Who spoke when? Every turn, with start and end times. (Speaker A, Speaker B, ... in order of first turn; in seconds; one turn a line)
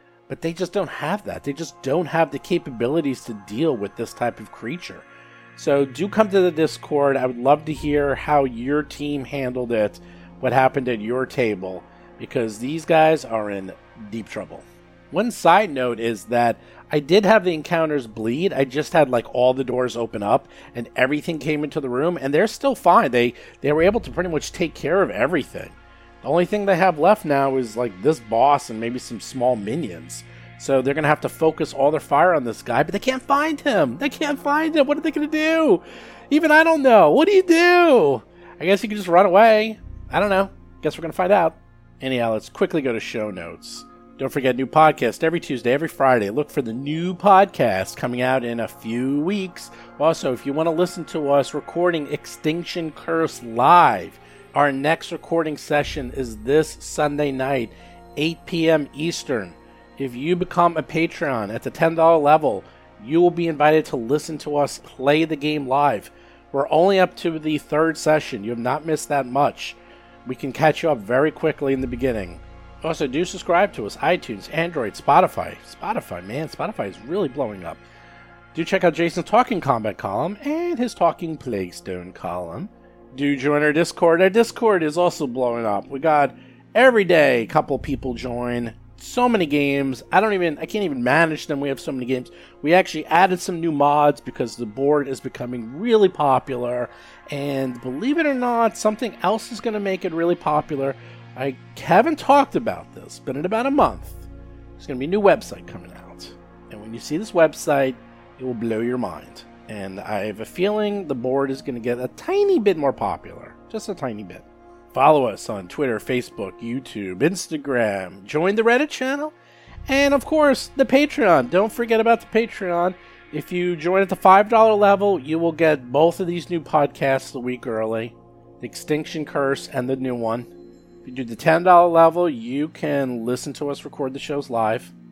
Speaker A: 0.3-77.8
Speaker A: 78.5-104.2
Speaker A: 104.8-119.3
Speaker A: 119.9-130.5
Speaker A: 131.0-134.9